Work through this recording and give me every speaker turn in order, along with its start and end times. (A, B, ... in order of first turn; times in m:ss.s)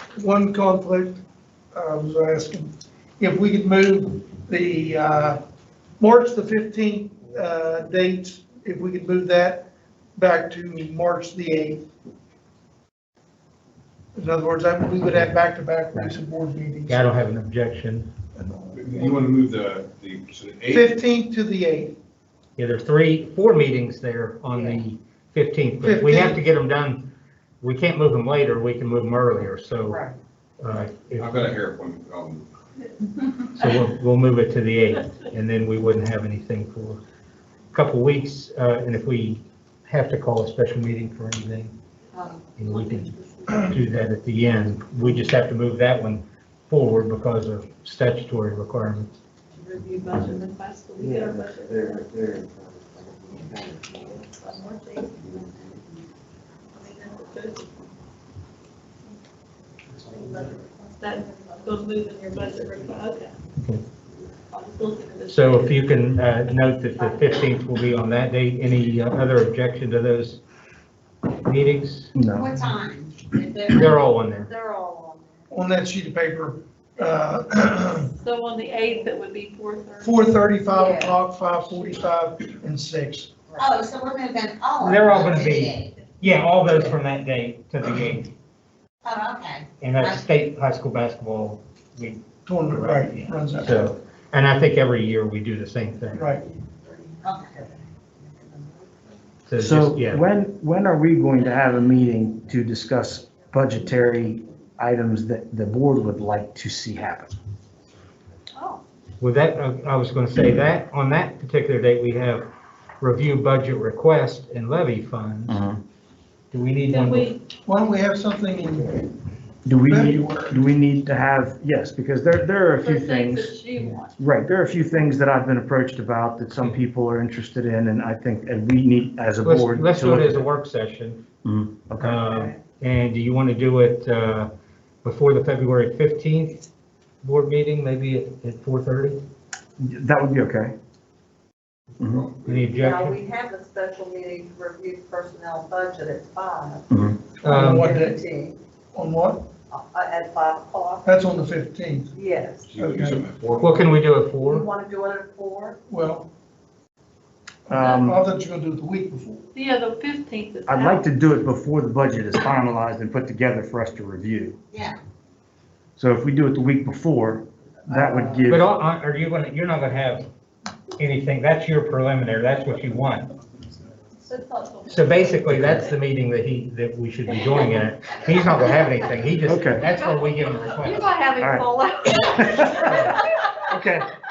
0:00.2-0:01.2 A
0:01.7-0:05.4 A
0:06.0-0:11.8 A
0:14.1-0:17.0 A
0:16.9-0:18.1 B
0:18.4-0:19.3 A
0:18.7-0:21.0 C
0:20.7-0:22.0 A
0:22.6-0:27.1 B
0:24.5-0:24.8 D
0:25.8-0:26.4 A
0:27.6-0:30.0 B
0:30.6-0:31.5 B
0:31.2-0:32.5 C
0:33.6-0:37.0 B
0:37.7-0:41.7 B
0:42.1-0:43.7 E
0:42.6-0:43.1 B
0:43.6-0:49.2 B
0:49.6-0:52.1 F
0:52.9-0:54.2 D
0:54.1-0:55.1 F
0:56.7-0:57.9 F
1:00.0-1:03.3 F
1:03.6-1:03.8 B
1:04.5-1:05.7 F
1:05.3-1:10.4 B
1:06.9-1:07.5 F
1:11.4-1:12.1 B
1:12.2-1:12.5 G
1:12.3-1:14.0 D
1:13.7-1:14.5 B
1:14.4-1:15.5 E
1:15.5-1:18.1 A
1:18.2-1:20.3 F
1:20.0-1:23.3 A
1:20.7-1:21.2 E
1:23.6-1:25.9 D
1:24.8-1:28.3 B
1:29.0-1:30.3 D
1:29.8-1:36.3 B
1:32.4-1:33.9 A
1:36.1-1:36.4 A
1:36.6-1:37.7 E
1:37.2-1:37.6 D
1:38.3-1:39.0 E
1:39.5-1:40.2 B
1:39.6-1:47.3 G
1:49.2-1:52.4 B
1:53.0-1:55.6 B
1:55.5-1:55.8 G
1:56.5-1:57.3 B
1:56.9-1:57.4 F
1:57.6-1:59.1 A
1:59.7-2:03.6 G
1:59.8-2:00.6 A
2:02.8-2:04.2 F
2:04.2-2:10.5 G
2:09.4-2:11.2 B
2:11.4-2:12.2 G
2:12.0-2:14.5 B
2:15.0-2:16.6 B
2:17.2-2:19.2 B
2:19.8-2:20.7 G
2:22.0-2:22.2 G
2:22.0-2:22.7 C
2:22.4-2:23.2 B
2:22.7-2:26.9 E
2:26.9-2:27.2 G
2:27.4-2:28.2 A
2:27.4-2:27.9 B
2:27.6-2:28.6 E
2:28.9-2:29.5 A
2:29.7-2:31.3 E
2:31.0-2:32.1 A
2:32.1-2:32.7 E
2:32.7-2:33.8 C
2:32.7-2:33.2 A
2:33.6-2:34.7 B
2:34.4-2:35.8 E
2:35.9-2:36.3 A
2:37.7-2:39.4 A
2:37.7-2:38.2 G
2:39.5-2:41.0 F
2:40.7-2:44.6 G
2:44.7-2:45.0 D
2:46.0-2:48.7 G
2:48.5-2:50.2 B
2:51.0-2:53.3 B
2:54.3-2:55.8 F
2:54.9-3:01.1 B
2:55.5-2:55.9 G
2:59.4-2:59.9 G
2:59.8-3:03.7 F
3:01.4-3:01.7 G
3:02.4-3:03.1 G
3:03.7-3:04.1 G